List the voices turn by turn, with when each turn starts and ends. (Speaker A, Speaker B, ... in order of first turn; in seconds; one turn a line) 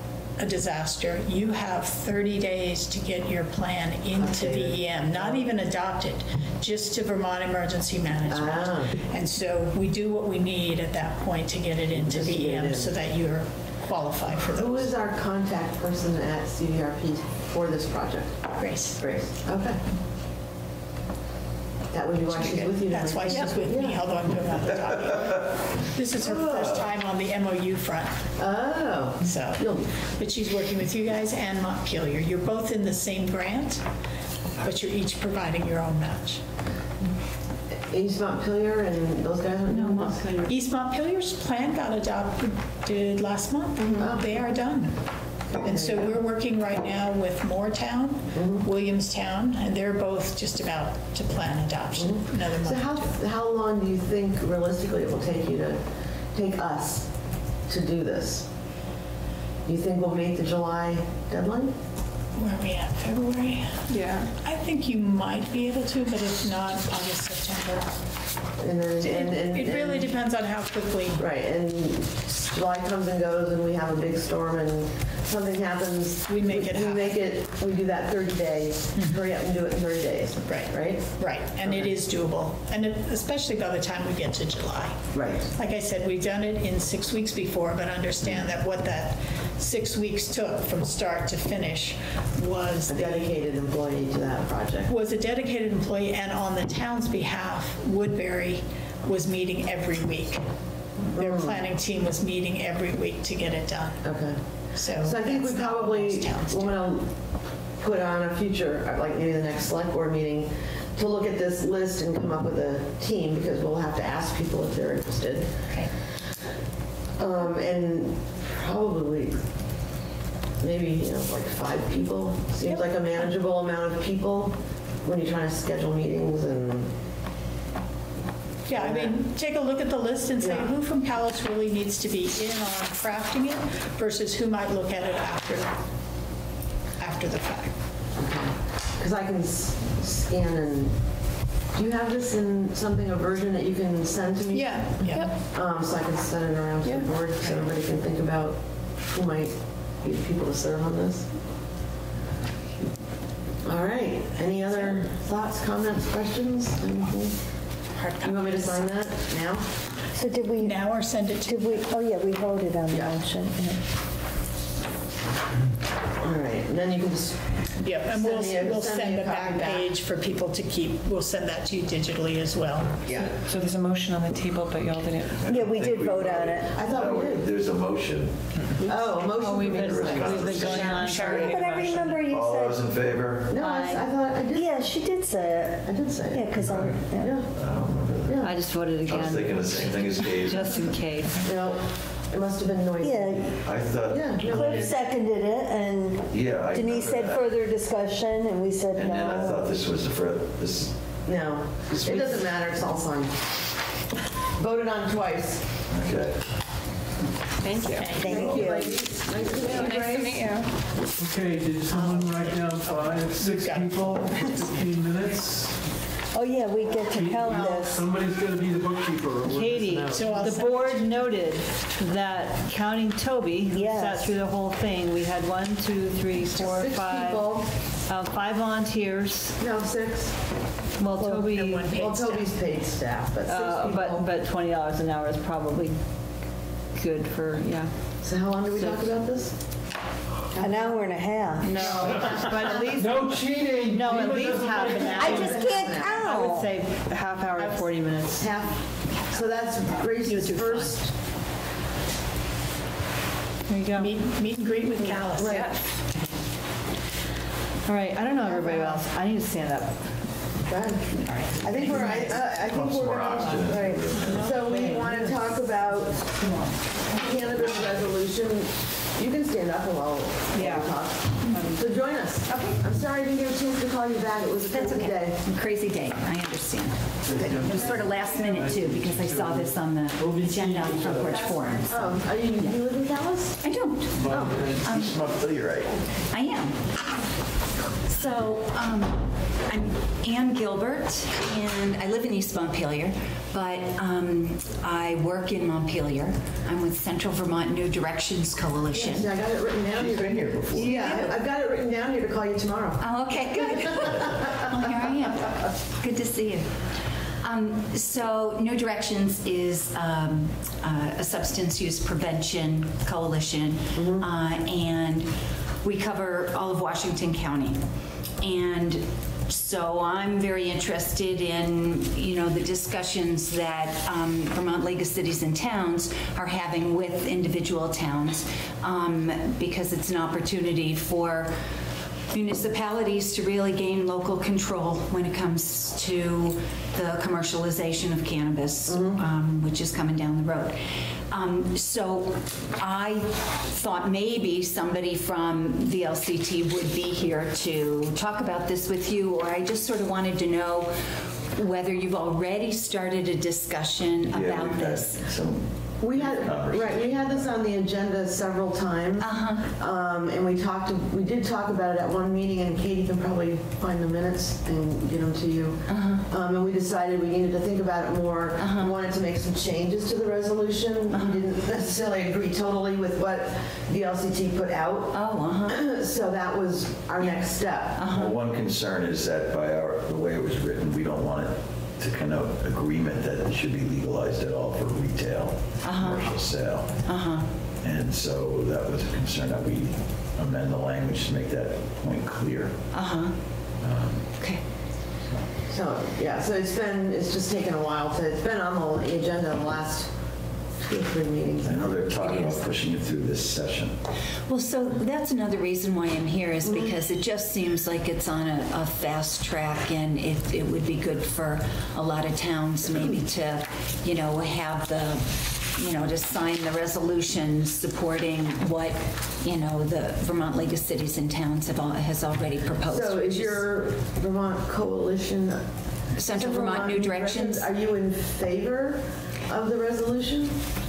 Speaker A: 0.4-14.9
Speaker B: 4.2-5.5
Speaker B: 8.3-9.0
Speaker B: 12.0-12.9
Speaker B: 14.6-18.4
Speaker A: 18.6-19.0
Speaker B: 19.0-19.8
Speaker B: 21.9-24.1
Speaker A: 22.3-28.3
Speaker C: 25.0-25.5
Speaker B: 26.2-26.8
Speaker B: 28.4-29.9
Speaker A: 29.2-33.8
Speaker A: 34.6-36.4
Speaker B: 37.9-40.5
Speaker A: 40.5-45.0
Speaker B: 43.8-44.2
Speaker B: 45.5-46.2
Speaker A: 45.6-53.2
Speaker B: 48.3-48.6
Speaker B: 52.0-55.8
Speaker B: 56.3-57.1
Speaker B: 57.7-58.5
Speaker B: 59.7-61.7
Speaker A: 62.4-63.8
Speaker D: 63.9-64.3
Speaker A: 64.4-67.9
Speaker B: 68.6-70.1
Speaker A: 69.0-71.2
Speaker B: 71.2-81.9
Speaker A: 76.3-77.2
Speaker A: 79.0-79.2
Speaker A: 80.4-93.4
Speaker B: 85.1-85.5
Speaker B: 92.9-94.9
Speaker A: 94.9-100.5
Speaker B: 101.1-101.6
Speaker A: 101.2-104.1
Speaker B: 104.0-107.1
Speaker A: 104.8-106.8
Speaker B: 107.8-115.5
Speaker B: 117.2-119.4
Speaker B: 120.6-126.9
Speaker A: 128.7-135.8
Speaker B: 128.7-129.2
Speaker B: 130.4-130.7
Speaker A: 137.0-137.7
Speaker B: 138.2-141.0
Speaker B: 141.7-151.3
Speaker A: 144.5-145.4
Speaker A: 147.4-147.7
Speaker B: 153.6-157.3
Speaker A: 158.0-158.8
Speaker B: 158.2-159.6
Speaker E: 160.1-163.8
Speaker A: 160.6-161.9
Speaker B: 162.9-163.2
Speaker B: 166.2-169.9
Speaker A: 167.8-173.1
Speaker B: 173.1-173.3
Speaker D: 173.2-175.5
Speaker C: 175.4-178.4
Speaker E: 175.5-176.8
Speaker B: 176.7-177.5
Speaker F: 178.8-181.6
Speaker B: 178.8-180.8
Speaker C: 179.7-183.5
Speaker D: 180.3-182.0
Speaker A: 181.1-181.5
Speaker E: 181.3-182.8
Speaker B: 183.5-184.9
Speaker F: 183.6-184.0
Speaker E: 184.5-187.4
Speaker B: 185.8-187.5
Speaker C: 186.6-190.8
Speaker B: 188.2-188.6
Speaker F: 188.4-191.4
Speaker B: 191.4-193.5
Speaker E: 193.0-193.6
Speaker C: 193.4-194.9
Speaker B: 194.1-195.0
Speaker E: 194.4-199.7
Speaker C: 196.3-197.4
Speaker C: 198.9-200.9
Speaker B: 201.2-203.4
Speaker B: 204.6-205.6
Speaker C: 205.9-206.4
Speaker D: 207.6-208.3
Speaker A: 208.0-209.1
Speaker B: 208.2-210.4
Speaker E: 208.2-209.2
Speaker D: 209.6-210.7
Speaker G: 211.2-215.8
Speaker A: 211.9-214.8
Speaker E: 216.3-218.1
Speaker G: 217.1-220.7
Speaker F: 219.5-227.5
Speaker A: 220.1-221.1
Speaker E: 223.7-224.4
Speaker B: 226.6-227.6
Speaker F: 228.1-229.6
Speaker B: 229.6-230.4
Speaker F: 231.0-232.0
Speaker E: 231.2-231.5
Speaker A: 231.4-232.6
Speaker B: 231.9-234.3
Speaker F: 233.5-236.0
Speaker F: 236.9-237.9
Speaker B: 238.2-239.6
Speaker F: 238.7-239.1
Speaker B: 240.5-241.0
Speaker E: 240.6-241.9
Speaker F: 241.6-248.5
Speaker A: 241.7-242.9
Speaker B: 241.8-243.0
Speaker G: 242.0-245.6
Speaker A: 244.0-245.8
Speaker B: 245.0-246.1
Speaker E: 245.2-246.7
Speaker A: 247.6-248.2
Speaker B: 248.4-251.1
Speaker A: 250.2-251.1
Speaker F: 253.7-254.1
Speaker A: 254.0-255.7
Speaker B: 255.4-255.8
Speaker F: 255.4-255.7
Speaker F: 257.9-260.0
Speaker B: 258.4-259.1
Speaker B: 260.7-266.4
Speaker A: 261.1-262.5
Speaker F: 261.9-262.3
Speaker C: 262.5-264.6
Speaker F: 264.2-265.3
Speaker A: 264.2-265.2
Speaker B: 267.1-275.4
Speaker F: 270.5-270.9
Speaker F: 271.5-271.8
Speaker H: 272.5-272.8
Speaker H: 274.7-282.8
Speaker G: 277.2-281.9
Speaker B: 281.9-283.6
Speaker H: 283.6-285.1
Speaker G: 284.1-285.1
Speaker C: 284.8-285.9
Speaker H: 286.3-287.0
Speaker H: 288.1-299.3
Speaker B: 298.9-303.0
Speaker C: 299.9-301.2
Speaker H: 300.8-301.4
Speaker H: 303.0-306.8
Speaker B: 303.6-304.6
Speaker H: 307.4-315.3
Speaker B: 313.9-314.2
Speaker H: 315.8-317.8
Speaker H: 318.4-331.5
Speaker H: 332.3-350.9
Speaker B: 338.9-339.2
Speaker H: 351.5-355.4
Speaker C: 354.3-357.5
Speaker B: 356.0-375.2
Speaker H: 359.2-359.7
Speaker H: 365.9-366.2
Speaker H: 368.6-369.0
Speaker H: 371.1-371.4
Speaker H: 375.1-375.8
Speaker B: 375.7-378.0
Speaker H: 377.2-378.4
Speaker C: 378.1-387.0
Speaker H: 385.8-386.4
Speaker H: 387.1-387.5
Speaker C: 387.8-392.8
Speaker H: 392.9-393.3
Speaker C: 393.8-394.3
Speaker B: 395.7-400.1
Speaker B: 400.8-402.1
Speaker C: 401.6-403.9
Speaker H: 402.2-402.7
Speaker H: 404.5-423.6
Speaker B: 406.6-406.9
Speaker B: 422.9-425.6
Speaker H: 426.2-427.7
Speaker B: 426.3-430.6